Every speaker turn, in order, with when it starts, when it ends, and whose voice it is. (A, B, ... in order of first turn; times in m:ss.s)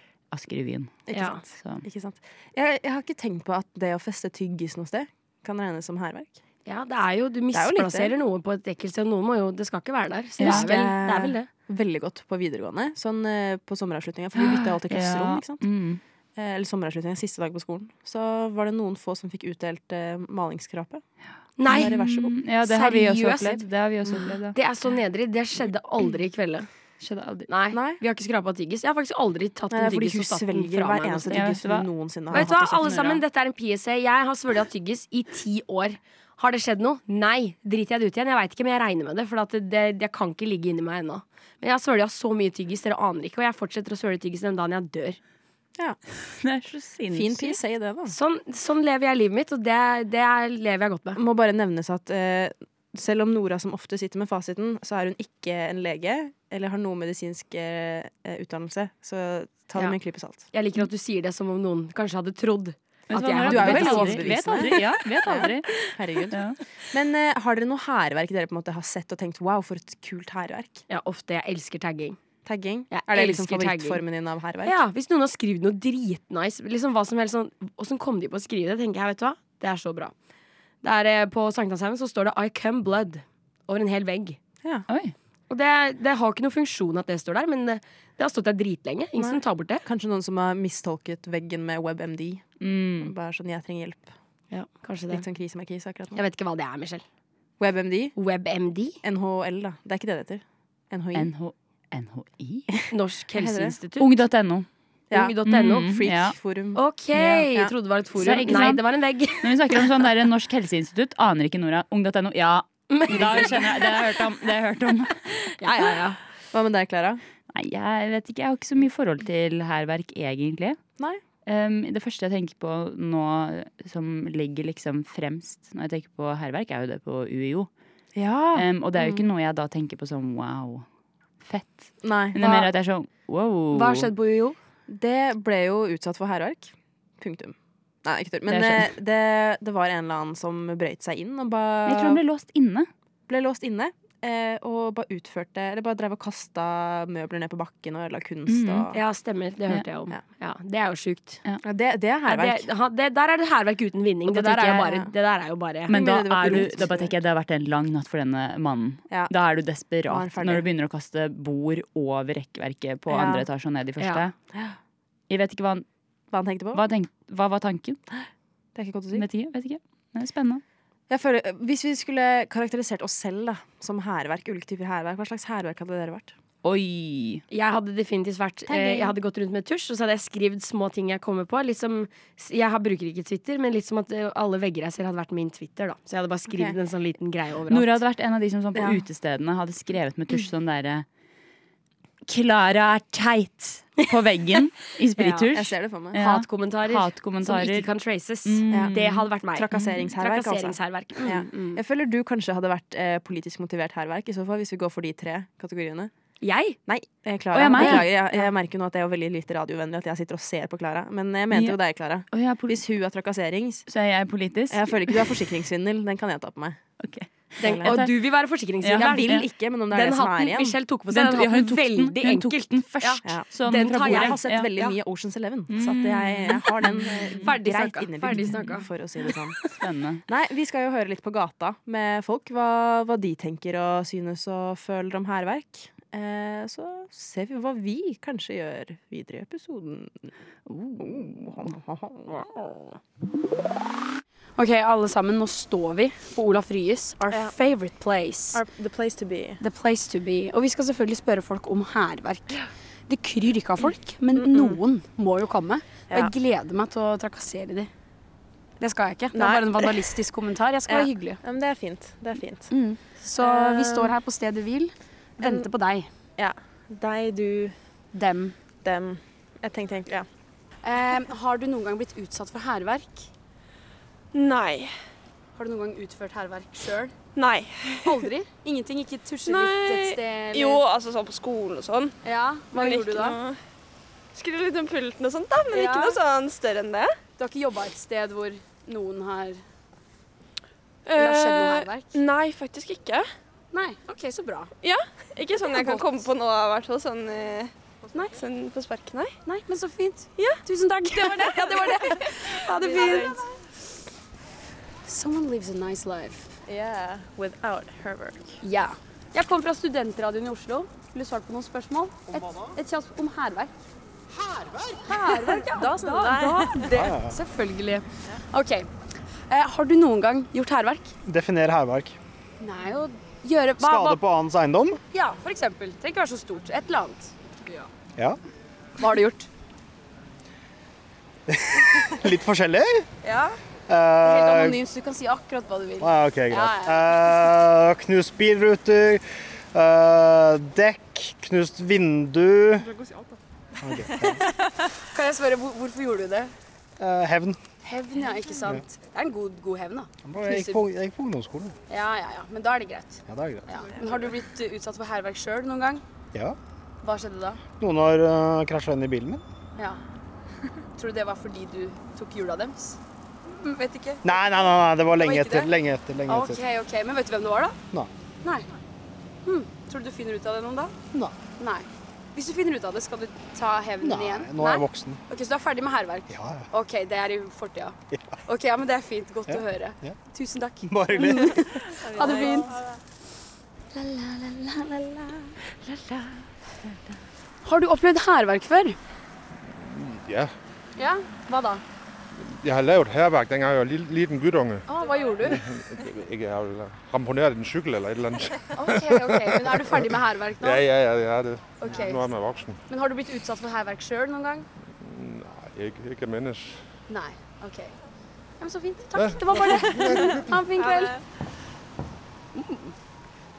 0:00.3-0:01.8 A
0:01.1-0:06.4 B
0:01.1-0:01.4 C
0:06.6-0:11.5 C
0:07.5-0:08.1 B
0:10.4-0:10.7 A
0:10.4-0:15.6 B
0:14.4-0:16.0 A
0:16.4-0:21.0 B
0:21.6-0:21.9 C
0:21.6-0:22.4 B
0:21.7-0:24.6 A
0:22.6-0:23.6 C
0:24.5-0:26.7 C
0:27.0-0:27.5 A
0:27.5-0:31.6 C
0:27.7-0:28.0 B
0:29.7-0:33.2 B
0:31.3-0:31.9 A
0:32.3-0:45.2 C
0:46.3-0:47.6 A
0:47.1-0:48.1 B
0:48.1-0:51.2 C
0:51.1-1:00.5 B
1:00.5-1:04.7 C
1:03.1-1:05.7 A
1:03.4-1:10.8 B
1:06.3-1:06.6 A
1:10.9-1:12.2 C
1:12.4-1:14.8 B
1:12.9-1:14.0 C
1:14.6-1:20.1 C
1:20.8-1:24.4 C
1:24.9-1:25.1 A
1:25.5-1:29.8 C
1:29.2-1:34.1 B
1:32.6-1:33.1 A
1:34.5-1:35.2 C
1:35.1-1:36.2 B
1:36.2-1:37.0 C
1:37.6-1:38.1 B
1:38.2-1:39.0 C
1:39.0-1:41.3 B
1:41.1-1:42.7 A
1:42.9-1:44.2 C
1:43.3-1:43.8 B
1:44.0-1:44.6 A
1:45.1-1:47.7 B
1:45.1-1:45.9 C
1:45.4-1:46.4 A
1:46.7-1:49.8 C
1:48.2-1:48.8 A
1:49.4-1:55.3 A
1:52.9-1:54.0 C
1:55.6-1:56.2 C
1:56.5-1:57.2 B
1:57.5-2:00.8 A
2:01.4-2:07.7 A
2:08.1-2:09.2 B
2:08.5-2:10.8 A
2:11.4-2:14.1 A
2:12.0-2:12.4 B
2:12.4-2:12.7 C
2:13.7-2:14.6 C
2:14.9-2:22.2 B
2:18.5-2:18.9 A
2:21.8-2:22.9 A
2:23.3-2:29.0 B
2:28.5-2:28.9 A
2:28.9-2:31.4 C
2:31.6-2:32.7 B
2:32.2-2:35.9 C
2:34.3-2:35.1 B
2:35.9-2:37.1 B
2:35.9-2:44.3 A
2:40.1-2:40.7 B
2:43.1-2:43.4 B
2:45.3-2:45.8 A
2:46.3-2:46.8 B
2:46.7-2:48.0 A
2:48.1-2:49.2 B
2:49.1-2:50.6 A
2:51.1-2:56.3 B
2:56.6-2:57.4 A
2:57.5-3:08.0 C
2:58.7-2:59.1 B
3:06.5-3:06.8 B
3:07.7-3:11.0 A
3:08.7-3:09.0 B
3:12.3-3:17.9 A
3:15.2-3:15.5 C
3:15.5-3:16.2 B
3:16.1-3:21.8 C
3:18.4-3:19.9 A
3:18.7-3:19.0 B
3:19.5-3:26.1 B
3:26.4-3:26.8 C
3:26.8-3:33.9 B
3:27.5-3:28.1 A
3:27.8-3:28.1 C
3:31.5-3:31.8 A
3:32.3-3:32.8 A
3:33.9-3:35.3 A
3:34.7-3:36.8 B
3:37.0-3:38.1 A
3:37.6-3:38.0 B
3:37.6-3:44.9 C
3:38.8-3:39.4 A
3:38.9-3:40.8 B
3:41.1-3:44.7 A
3:43.2-3:49.6 B
3:45.7-3:47.5 A
3:47.1-3:48.9 C
3:49.8-3:50.2 A
3:50.3-4:00.3 B
4:00.7-4:01.7 A
4:01.0-4:02.5 B
4:04.6-4:08.6 D
4:08.5-4:09.6 B
4:09.6-4:12.6 D
4:13.1-4:17.9 D
4:14.3-4:14.8 B
4:18.8-4:21.4 D
4:19.3-4:20.1 B
4:20.9-4:22.7 B
4:22.7-4:26.1 D
4:23.4-4:24.1 B
4:25.4-4:25.7 B
4:26.4-4:27.7 B
4:28.1-4:28.5 D
4:28.8-4:30.3 B
4:30.8-4:33.3 D
4:34.3-4:34.9 E
4:35.6-4:37.1 D
4:37.3-4:38.2 E
4:38.0-4:40.8 D
4:39.5-4:42.2 E
4:42.2-4:43.4 D
4:42.7-4:43.6 E
4:44.3-4:47.1 E
4:45.7-4:46.2 D
4:47.4-4:49.6 D
4:51.0-4:53.3 E
4:51.1-4:52.1 D
4:53.7-4:54.7 D
4:54.8-4:59.3 E
4:55.6-4:56.2 D
4:58.1-4:58.4 D
4:59.4-5:03.4 D
5:00.4-5:00.6 E
5:01.4-5:03.4 E
5:05.0-5:06.5 D
5:06.6-5:08.6 B
5:08.6-5:13.7 D
5:15.0-5:18.9 D
5:15.4-5:16.9 B
5:16.9-5:17.4 F
5:19.5-5:21.1 D
5:21.2-5:22.2 F
5:22.6-5:24.2 D
5:23.8-5:25.0 F
5:25.1-5:27.8 D
5:29.0-5:29.5 D
5:31.5-5:33.0 F
5:33.2-5:33.6 D
5:33.9-5:34.8 F
5:34.2-5:37.4 D
5:36.0-5:42.9 F
5:43.0-5:43.2 E
5:43.8-5:44.4 F
5:45.0-5:46.5 D
5:47.0-5:47.6 F
5:47.8-5:50.8 D
5:50.2-5:51.7 F
5:51.9-5:56.0 D
5:53.3-5:53.7 F
5:57.0-5:57.6 D
5:57.8-5:59.4 F
6:01.0-6:05.7 D
6:04.2-6:06.6 F
6:06.2-6:07.8 D
6:08.4-6:08.7 D
6:09.4-6:11.0 D
6:11.6-6:22.7 D
6:14.0-6:15.2 F
6:16.3-6:16.7 F
6:18.1-6:18.4 F
6:19.5-6:20.2 F
6:20.9-6:21.9 F
6:22.1-6:22.7 B
6:22.2-6:22.6 E
6:23.9-6:25.5 D
6:27.6-6:29.0 D
6:29.6-6:30.5 G
6:31.0-6:31.8 D
6:32.4-6:34.9 G
6:34.9-6:35.6 D
6:35.4-6:42.8 G
6:38.7-6:40.8 D
6:41.8-6:42.3 D
6:42.9-6:44.7 D
6:45.0-6:46.9 G
6:47.1-6:47.9 D
6:48.6-6:51.2 D
6:49.2-6:50.5 G
6:52.5-6:52.9 D